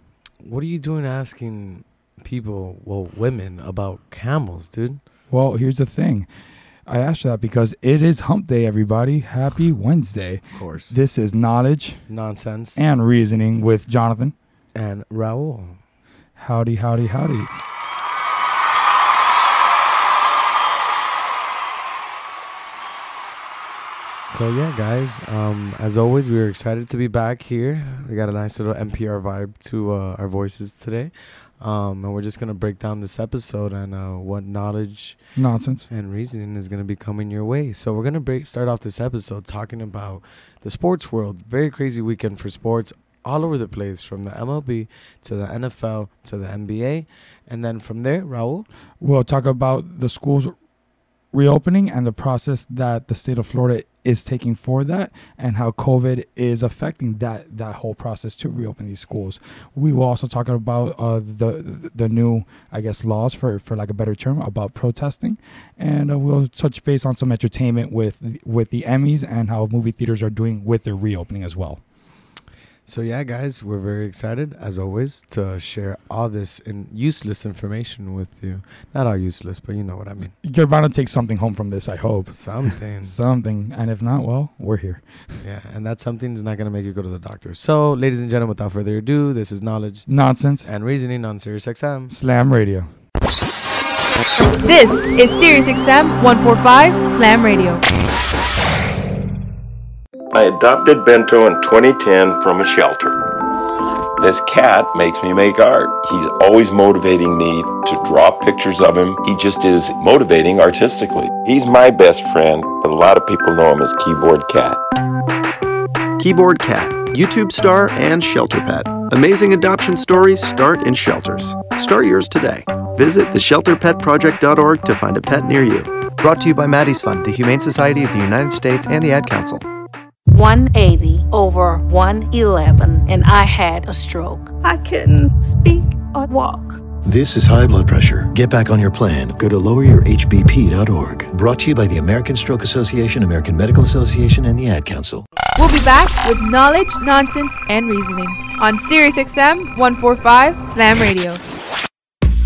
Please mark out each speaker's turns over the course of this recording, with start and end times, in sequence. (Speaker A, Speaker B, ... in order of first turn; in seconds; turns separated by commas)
Speaker A: 0.4-5.0, Speaker B: 5.3-6.3, Speaker B: 6.9-12.0, Speaker A: 10.5-11.0, Speaker A: 12.1-12.8, Speaker B: 12.8-14.3, Speaker A: 14.7-15.8, Speaker B: 16.4-17.5, Speaker A: 24.3-35.2, Speaker B: 35.4-35.9, Speaker A: 35.9-48.7, Speaker B: 49.0-50.5, Speaker B: 51.3-71.8, Speaker A: 72.8-80.3, Speaker B: 80.4-85.0, Speaker A: 82.3-83.2, Speaker A: 85.4-90.1, Speaker B: 90.1-90.7, Speaker A: 90.6-92.1, Speaker B: 92.1-92.9, Speaker C: 94.5-97.8, Speaker D: 100.3-103.2, Speaker D: 104.2-114.8, Speaker E: 116.2-129.6, Speaker F: 130.3-136.8, Speaker G: 137.0-145.2, Speaker C: 145.6-151.4